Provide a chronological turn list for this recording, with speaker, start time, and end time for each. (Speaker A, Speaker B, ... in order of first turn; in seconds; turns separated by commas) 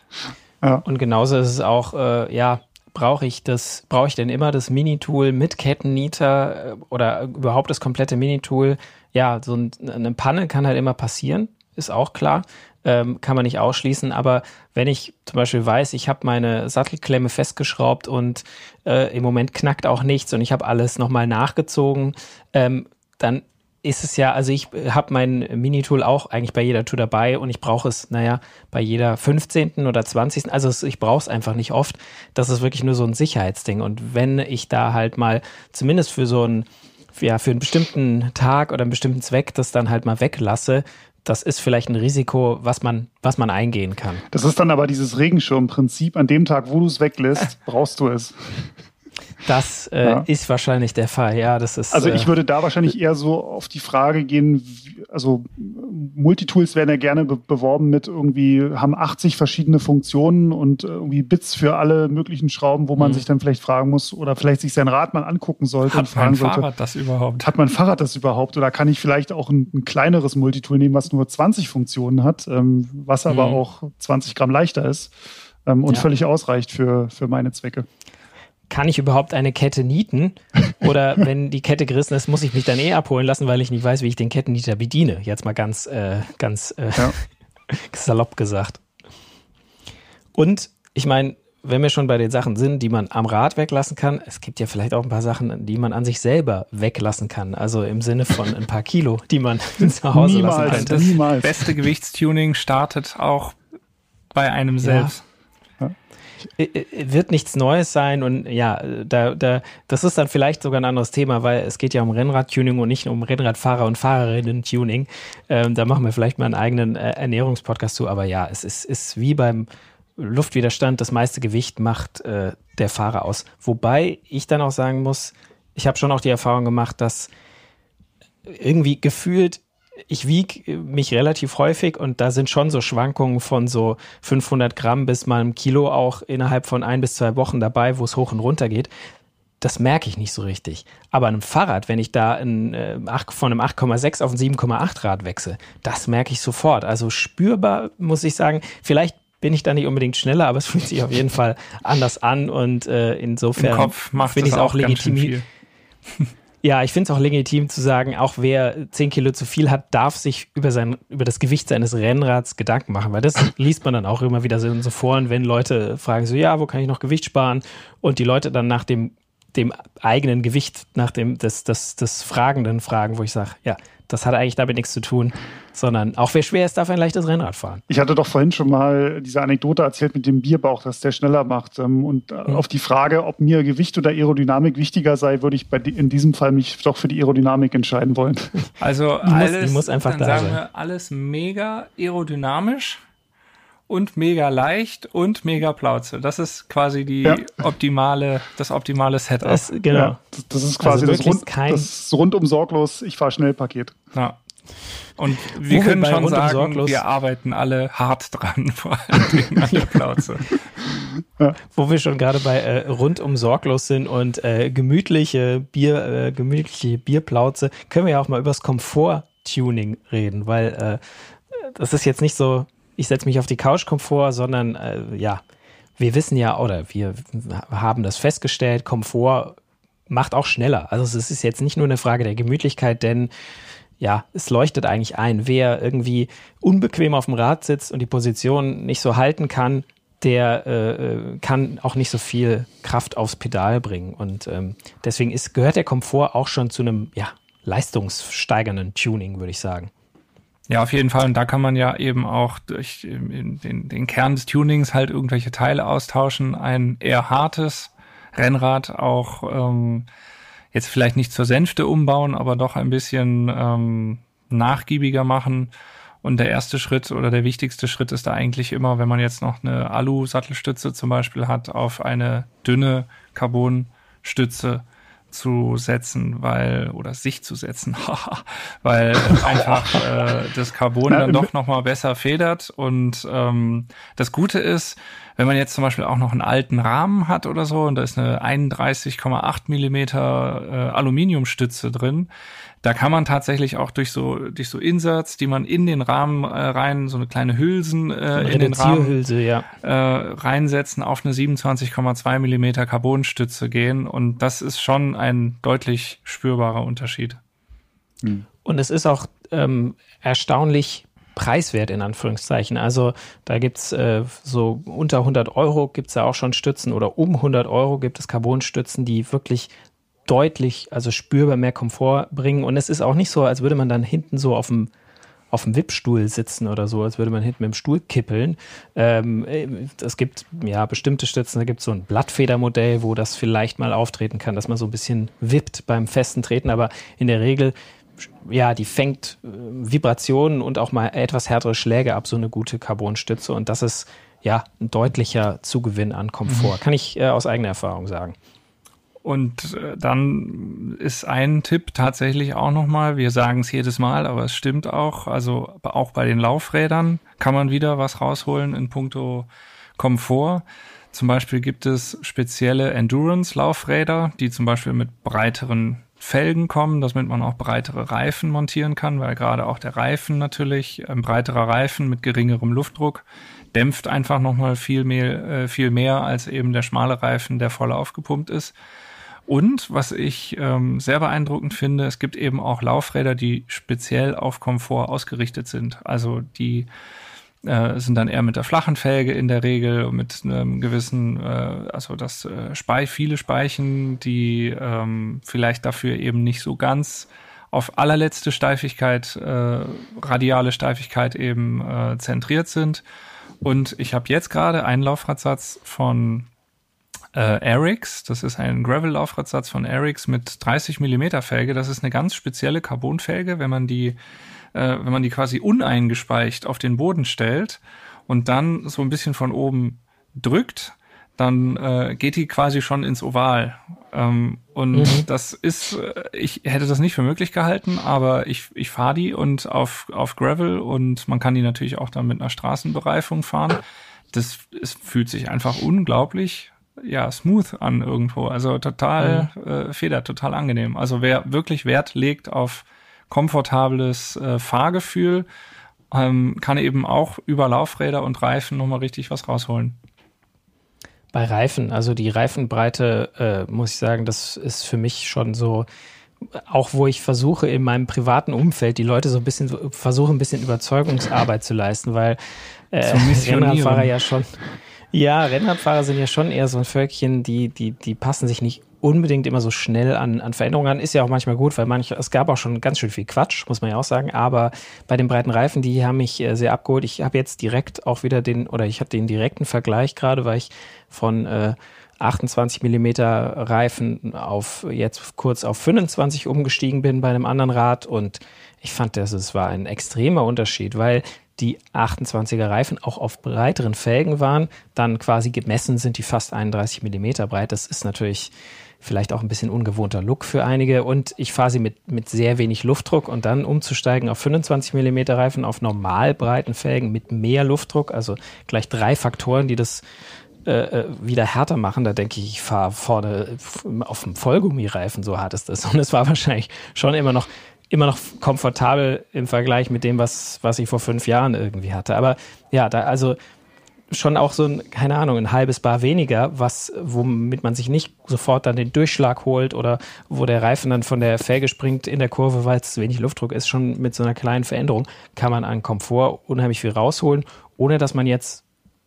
Speaker A: 0.8-44.2, Speaker B: 44.3-48.7, Speaker A: 49.4-52.3, Speaker B: 51.9-66.7, Speaker A: 63.0-63.2, Speaker C: 65.9-67.5, Speaker B: 67.4-75.1, Speaker C: 73.3-73.6, Speaker B: 75.7-77.8, Speaker A: 78.7-87.1, Speaker A: 87.7-88.8, Speaker A: 90.3-101.0, Speaker B: 99.8-101.7, Speaker C: 100.6-103.5, Speaker C: 104.3-105.2, Speaker A: 104.8-105.1, Speaker A: 106.6-127.3, Speaker A: 128.4-138.9, Speaker A: 139.6-155.4, Speaker C: 153.6-155.4, Speaker A: 156.6-177.8, Speaker B: 177.9-188.6, Speaker C: 188.8-193.0, Speaker A: 189.2-190.6, Speaker C: 193.9-199.6, Speaker A: 199.4-200.2, Speaker B: 199.9-204.0, Speaker A: 200.8-201.9, Speaker C: 205.2-210.6, Speaker A: 205.7-207.0, Speaker A: 211.7-221.0, Speaker A: 221.5-225.4, Speaker A: 226.0-229.6, Speaker A: 230.1-233.3, Speaker A: 234.0-249.9, Speaker C: 250.7-260.1, Speaker C: 260.7-265.7, Speaker C: 266.2-292.3, Speaker B: 281.1-281.5, Speaker C: 292.8-299.2, Speaker A: 298.4-299.7, Speaker C: 299.8-307.4, Speaker A: 308.6-319.7, Speaker A: 320.2-324.9, Speaker A: 325.5-337.7, Speaker A: 338.4-348.4, Speaker C: 346.5-346.7, Speaker C: 349.2-378.7, Speaker C: 379.5-386.9, Speaker C: 387.6-403.0, Speaker C: 403.6-406.5, Speaker C: 407.3-414.2, Speaker C: 414.7-433.8, Speaker A: 424.9-425.2, Speaker C: 434.3-445.5, Speaker A: 439.2-439.5, Speaker C: 446.1-449.9, Speaker A: 451.3-455.9, Speaker A: 456.5-462.4, Speaker A: 462.9-464.6, Speaker C: 463.0-464.1, Speaker A: 465.1-498.5, Speaker A: 499.0-510.0, Speaker A: 510.6-523.4, Speaker A: 524.1-538.6